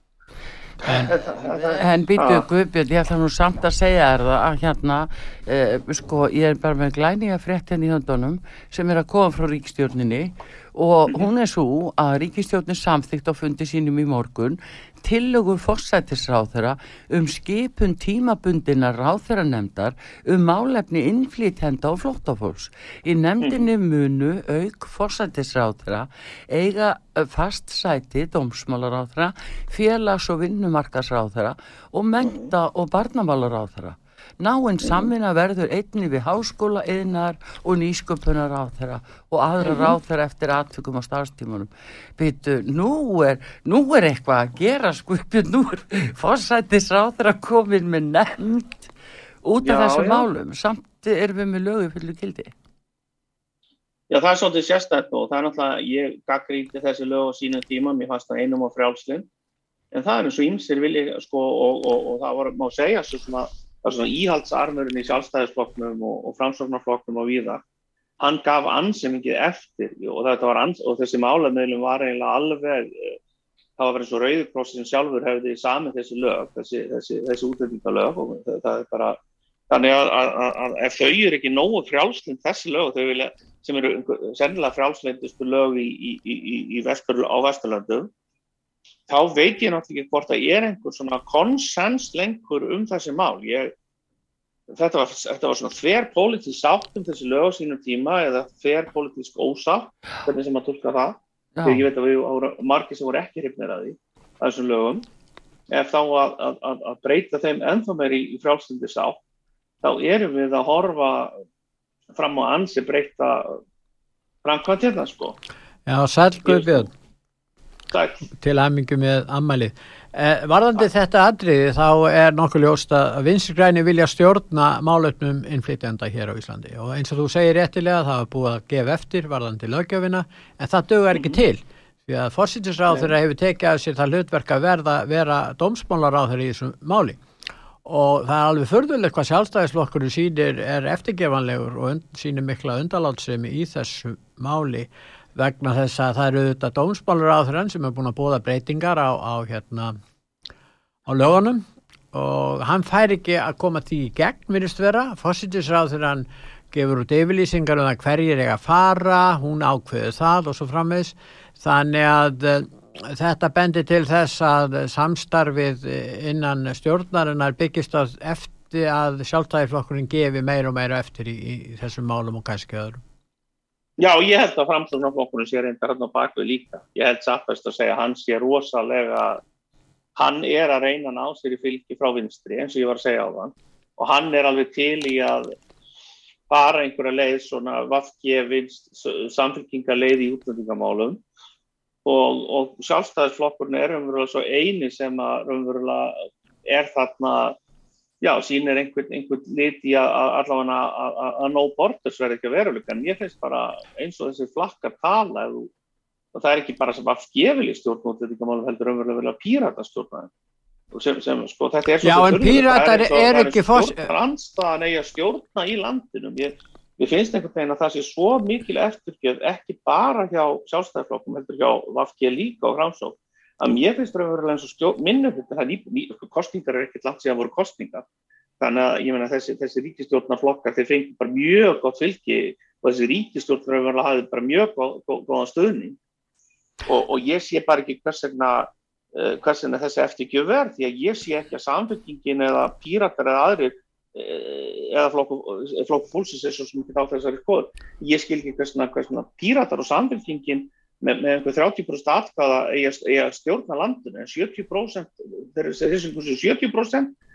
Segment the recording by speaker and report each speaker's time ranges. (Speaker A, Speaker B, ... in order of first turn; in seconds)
Speaker A: 0.8-2.5, 23.4-23.6, 32.2-32.5, 34.8-35.1, 39.6-40.0, 49.6-50.2, 54.1-59.3, 59.9-67.6, 68.2-73.2, 73.8-79.2, 79.7-88.1, 89.1-93.7, 94.7-105.0, 105.7-109.2, 109.8-111.4, 112.1-113.6, 114.4-115.3, 116.4-116.9, 117.9-118.2, 131.1-131.4, 174.0-179.4, 180.2-185.5, 186.5-191.2, 192.0-197.6, 198.2-205.7, 206.3-210.3, 210.9-228.0, 228.6-236.0, 236.8-257.1
Speaker B: 0.9-48.9, 49.4-52.5, 101.6-101.8
Speaker C: 115.9-116.9, 118.4-137.2, 137.8-149.9, 151.1-173.0, 212.0-214.1